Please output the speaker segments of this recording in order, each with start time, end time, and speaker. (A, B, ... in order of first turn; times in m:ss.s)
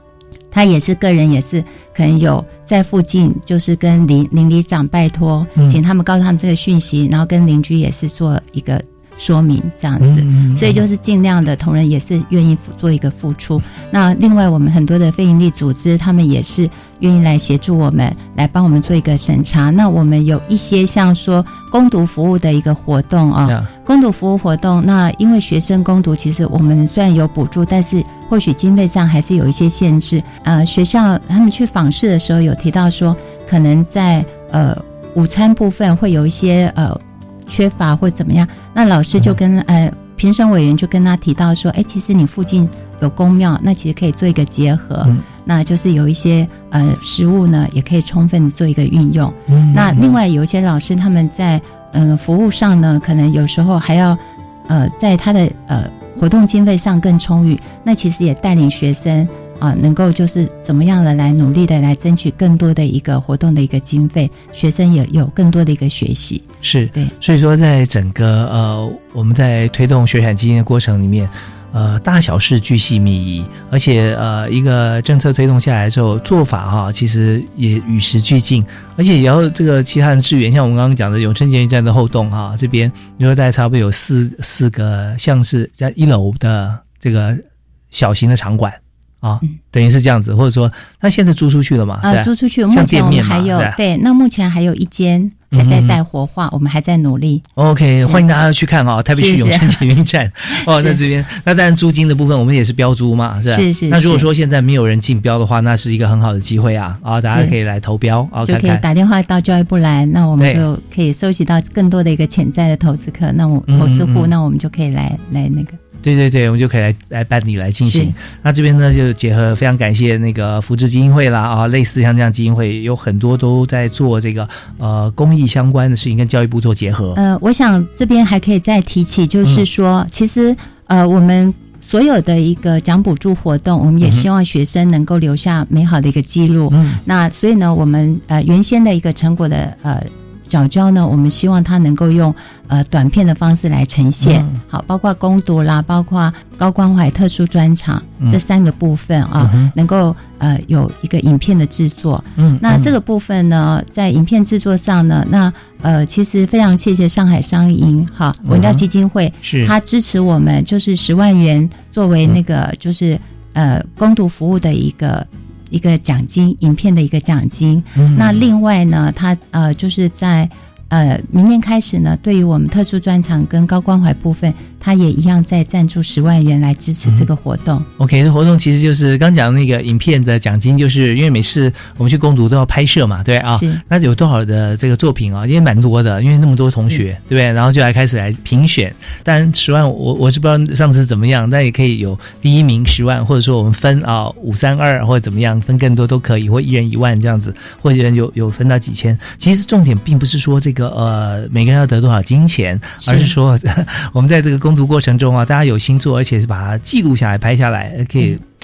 0:00.5-1:07.1 A
0:10.0-0:10.8 B
0:23.4-0:23.7 B
0:49.5-0:50.0 B
1:06.6-1:33.8 B
1:32.0-1:37.4 A
1:35.5-1:36.0 B
1:37.6-1:48.8 B
1:39.2-1:39.8 A
1:40.6-1:41.0 A
1:43.5-1:44.3 A
1:48.4-1:55.8 A
1:50.4-1:50.6 B
1:53.7-1:54.3 B
1:56.0-2:07.2 B
1:57.8-1:58.2 A
2:07.2-2:57.9 A
2:16.7-2:17.0 B
2:24.2-2:24.6 B
2:29.4-2:29.7 B
2:32.4-2:32.9 B
2:38.4-2:38.8 B
2:39.4-2:39.7 B
2:48.0-2:48.4 B
2:58.0-3:28.4 B
3:03.5-3:03.8 A
3:23.0-3:23.3 A